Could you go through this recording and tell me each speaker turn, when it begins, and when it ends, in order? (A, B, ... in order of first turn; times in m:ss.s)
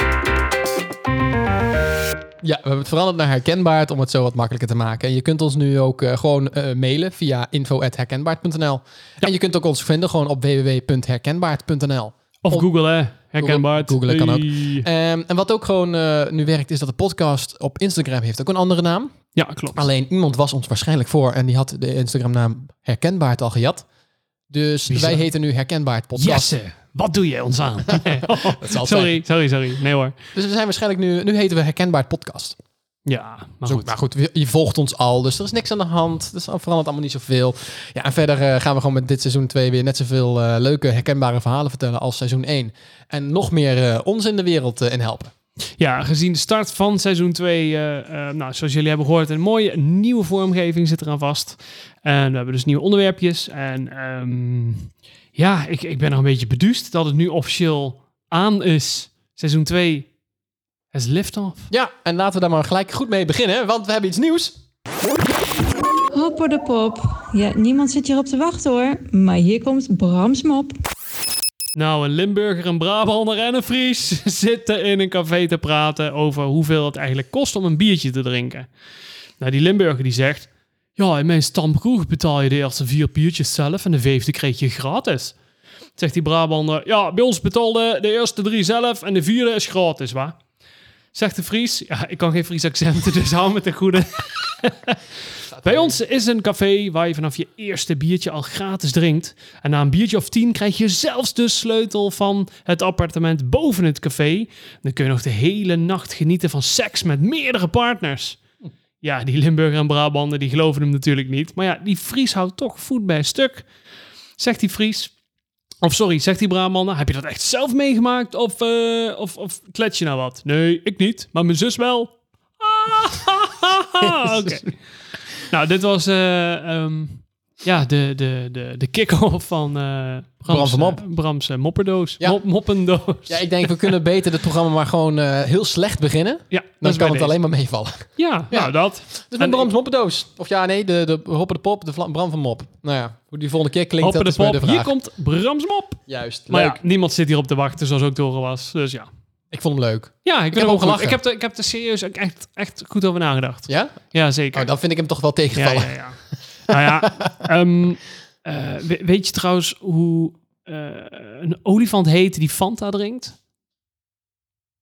0:02.4-0:12.7 A
0:12.4-0:14.9 B
0:13.4-0:19.2 A
0:19.3-0:19.8 B
0:19.7-0:23.8 A
0:24.5-0:26.5 A
0:24.9-0:25.3 B
0:26.2-0:30.1 B
0:28.1-0:29.2 A
0:30.3-0:32.6 A
0:33.0-0:33.9 B
0:33.6-0:45.3 A
0:45.8-1:00.1 B
1:00.9-1:01.7 B
1:01.7-1:04.5 A
1:06.1-1:10.8 C
1:11.7-1:18.7 B
1:19.4-1:25.3 B
1:26.0-1:30.4 B
1:31.1-1:35.0 B
1:35.5-1:36.0 A
1:35.6-1:48.4 B
1:49.0-1:53.7 B
1:54.4-1:55.1 B
1:55.8-2:04.8 B
2:05.4-2:13.9 B
2:10.5-2:11.0 A
2:13.3-2:24.9 A
2:16.5-2:17.3 B
2:18.2-2:19.7 B
2:24.0-2:29.1 B
2:26.1-2:26.8 A
2:29.5-2:31.2 A
2:30.2-2:34.7 B
2:33.7-2:34.0 A
2:34.5-2:36.0 A
2:35.5-2:43.4 B
2:36.7-2:37.4 A